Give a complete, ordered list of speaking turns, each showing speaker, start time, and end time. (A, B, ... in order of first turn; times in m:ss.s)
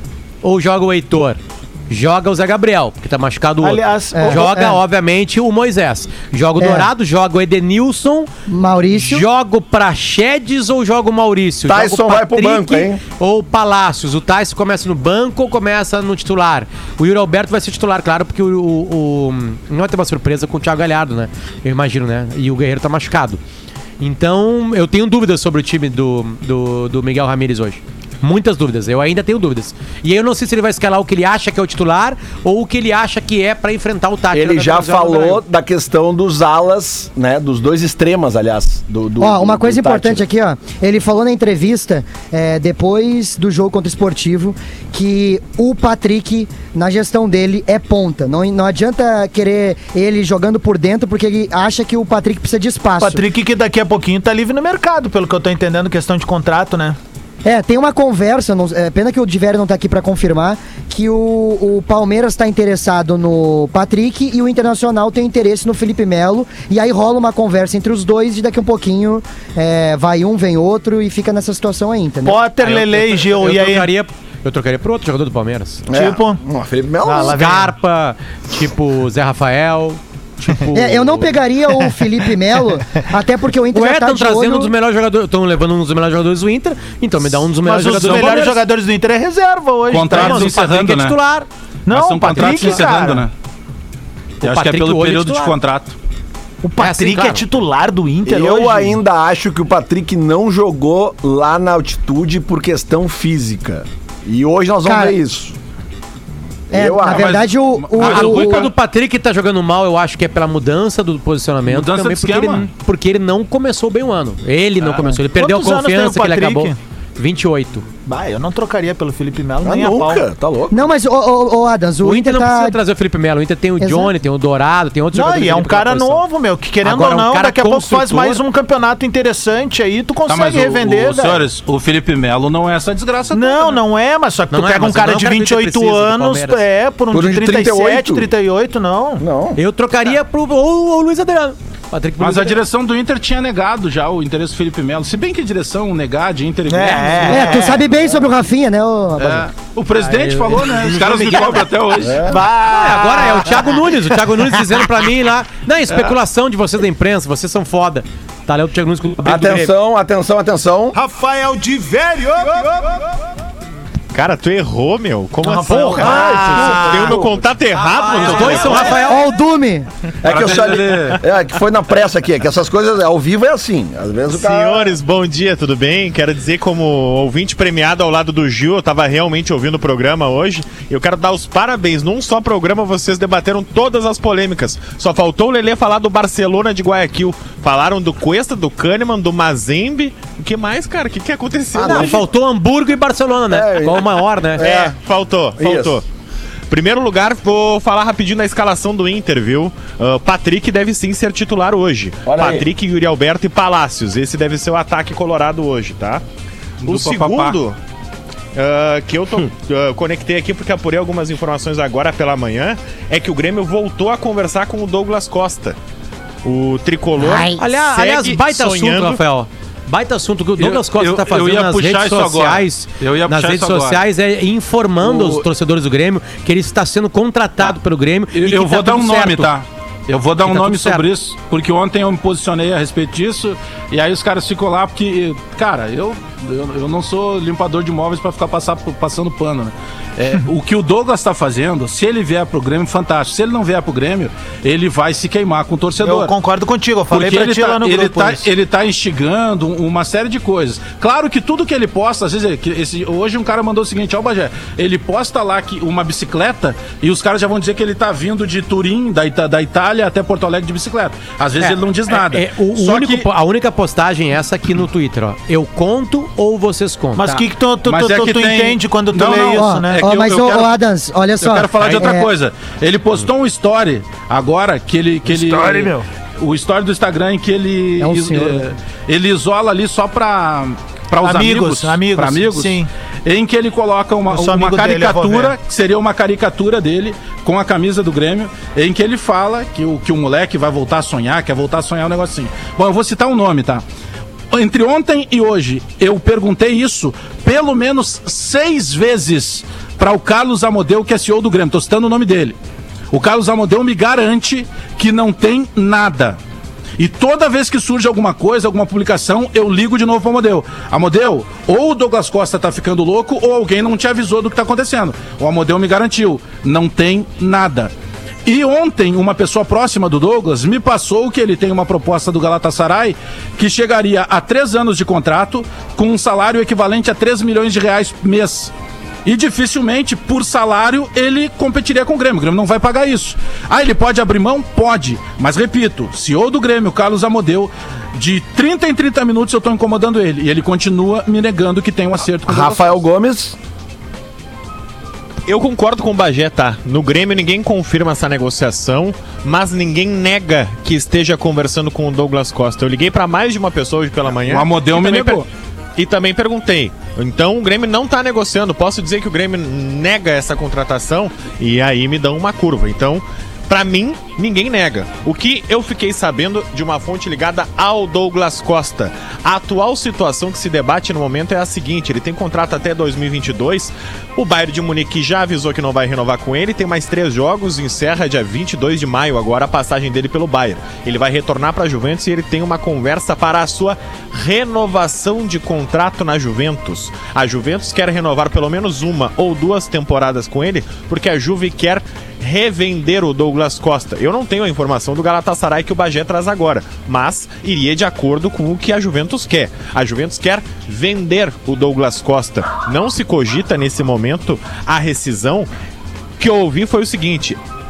0:00.4-0:08.3 A
0:03.6-0:04.5 B
0:04.1-0:04.8 C
0:06.6-0:06.9 C
0:08.5-0:09.2 C
0:08.9-0:23.4 A
0:11.7-0:13.0 D
0:24.0-0:35.4 A
0:34.3-0:40.2 D
0:39.2-0:53.2 C
0:53.0-0:57.0 B
0:57.4-1:12.4 C
1:12.2-1:13.9 B
1:12.6-1:15.8 A
1:15.9-1:17.4 D
1:15.9-1:16.4 B
1:17.0-1:17.7 B
1:17.2-1:21.4 A
1:20.7-1:24.7 C
1:23.7-1:28.6 A
1:27.6-1:30.5 B
1:27.8-1:28.6 E
1:29.9-1:31.2 E
1:30.1-1:31.5 A
1:31.8-1:33.2 B
1:31.9-1:33.3 E
1:32.3-1:32.8 A
1:34.4-1:35.6 A
1:34.4-1:35.9 E
1:36.6-1:39.0 B
1:36.8-1:37.4 A
1:38.2-1:45.6 D
1:44.8-1:45.2 C
1:46.7-1:47.4 D
1:46.7-1:48.7 C
1:47.0-1:48.7 E
1:48.0-1:57.8 A
1:51.7-1:52.7 E
1:55.0-1:56.8 B
1:58.0-2:00.2 B
1:59.6-2:00.8 D
2:00.7-2:02.8 C
2:02.0-2:06.3 A
2:03.8-2:04.1 C
2:05.1-2:11.4 B
2:06.8-2:08.4 A
2:10.3-2:13.8 E
2:13.3-2:19.2 B
2:14.5-2:16.6 A
2:17.1-2:18.3 D
2:19.2-2:19.6 D
2:19.6-2:22.6 A
2:22.2-2:27.7 E
2:26.7-2:27.8 B
2:27.3-2:29.5 C
2:29.2-2:32.3 E
2:30.1-2:31.7 A
2:32.0-2:32.4 D
2:32.2-2:34.1 B
2:32.6-2:39.7 A
2:39.2-2:41.0 D
2:40.9-2:42.9 B
2:44.1-2:49.0 F
2:45.4-2:47.3 B
2:45.7-2:46.1 A
2:46.0-2:47.3 D
2:47.8-2:49.3 A
2:48.1-2:48.9 B
2:48.9-2:49.9 C
2:50.2-2:55.0 D
2:50.2-2:51.2 E
2:54.3-3:12.2 F
3:11.7-3:12.2 D
3:11.8-3:14.6 A
3:13.5-3:15.0 D
3:14.6-3:16.0 F
3:15.6-3:16.0 D
3:16.7-3:26.2 F
3:22.2-3:22.7 D
3:26.8-3:27.6 E
3:26.8-3:27.8 F
3:28.5-3:35.8 F
3:36.4-3:39.2 F
3:37.2-3:37.6 C
3:37.5-3:49.5 A
3:40.6-3:44.0 E
3:45.0-3:45.4 E
3:48.3-4:06.3 E
3:50.4-3:51.0 A
4:06.0-4:08.4 B
4:07.1-4:23.3 E
4:21.6-4:27.4 A
4:27.2-4:30.1 B
4:27.8-4:30.8 E
4:29.6-4:32.3 C
4:31.4-4:53.8 E
4:35.3-4:36.0 B
4:38.0-4:38.7 C
4:41.2-4:42.9 B
4:44.3-4:45.5 B
4:54.5-5:02.6 E
5:03.1-5:06.4 E
5:07.0-5:17.9 E
5:18.4-5:28.7 E
5:29.2-5:42.9 E
5:42.5-5:43.6 D
5:45.4-5:55.4 F
5:54.4-5:55.5 E
5:56.0-6:45.7 F
6:46.4-6:47.6 F